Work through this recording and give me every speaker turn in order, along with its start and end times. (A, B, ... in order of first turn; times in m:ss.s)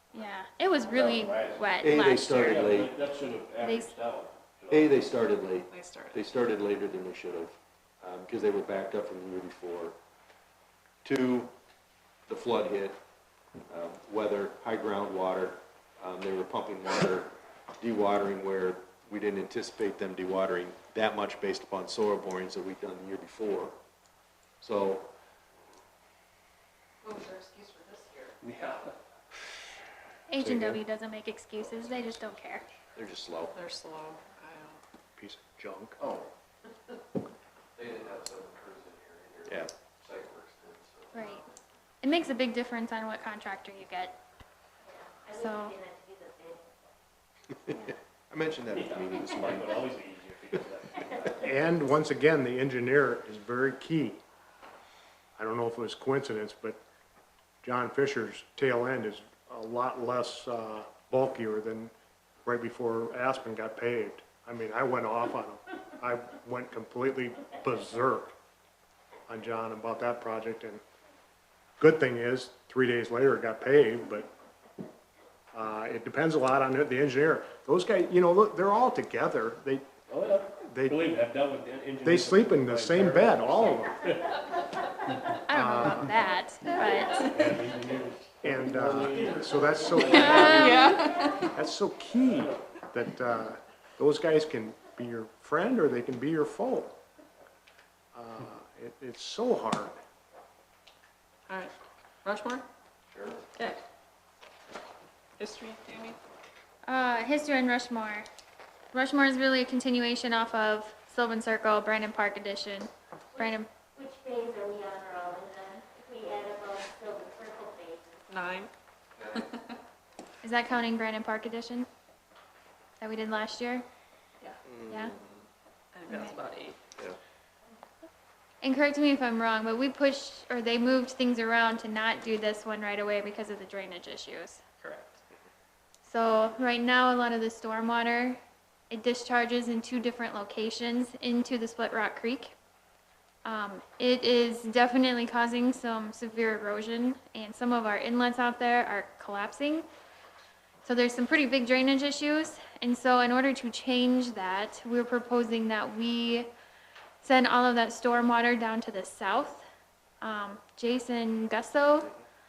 0:00.1-0:02.7 A
0:00.9-0:05.0 B
0:01.8-0:02.9 C
0:03.6-0:03.9 A
0:04.7-0:10.0 C
0:05.7-0:06.3 D
0:11.0-0:11.5 C
0:12.3-0:13.0 C
0:13.7-0:23.8 C
0:24.6-0:25.1 C
0:27.0-0:28.4 D
0:28.4-0:29.0 B
0:30.3-0:32.6 A
0:30.4-0:30.8 E
0:31.6-0:32.5 F
0:32.9-0:33.5 C
0:33.5-0:34.8 D
0:35.2-0:36.0 E
0:36.0-0:36.3 F
0:37.8-0:41.4 F
0:39.5-0:39.7 C
0:41.1-0:41.4 A
0:42.0-0:44.2 A
0:44.8-0:47.0 G
0:45.3-0:45.8 A
0:47.6-0:49.8 C
0:48.7-0:51.5 B
0:51.4-0:54.2 E
0:55.4-0:56.8 E
0:57.6-1:01.9 E
1:02.4-1:08.3 E
1:09.3-1:10.8 E
1:11.8-1:14.3 E
1:15.5-1:19.9 E
1:20.1-1:24.3 B
1:20.6-1:21.1 E
1:22.0-1:24.1 E
1:23.4-1:25.2 G
1:25.5-1:27.5 A
1:25.5-1:26.2 E
1:27.2-1:30.9 B
1:28.4-1:37.0 E
1:29.8-1:31.4 G
1:30.1-1:31.5 D
1:30.2-1:30.8 A
1:32.1-1:32.6 B
1:38.1-1:40.0 E
1:41.5-1:42.6 D
1:45.4-1:46.2 D
1:46.8-1:48.2 A
1:48.9-1:53.7 A
1:53.3-1:58.2 G
1:58.3-1:58.7 D
1:59.2-1:59.5 F
1:59.3-1:59.8 D
2:00.4-2:01.9 A
2:03.0-2:03.8 A
2:04.6-2:05.2 C
2:04.9-2:05.1 A
2:05.9-2:06.8 D
2:06.0-2:06.4 A
2:08.6-2:14.6 A
2:14.8-2:15.2 D
2:16.0-2:22.5 A
2:23.4-2:29.8 A
2:30.8-2:36.5 A
2:37.2-2:39.6 A
2:40.2-2:42.1 A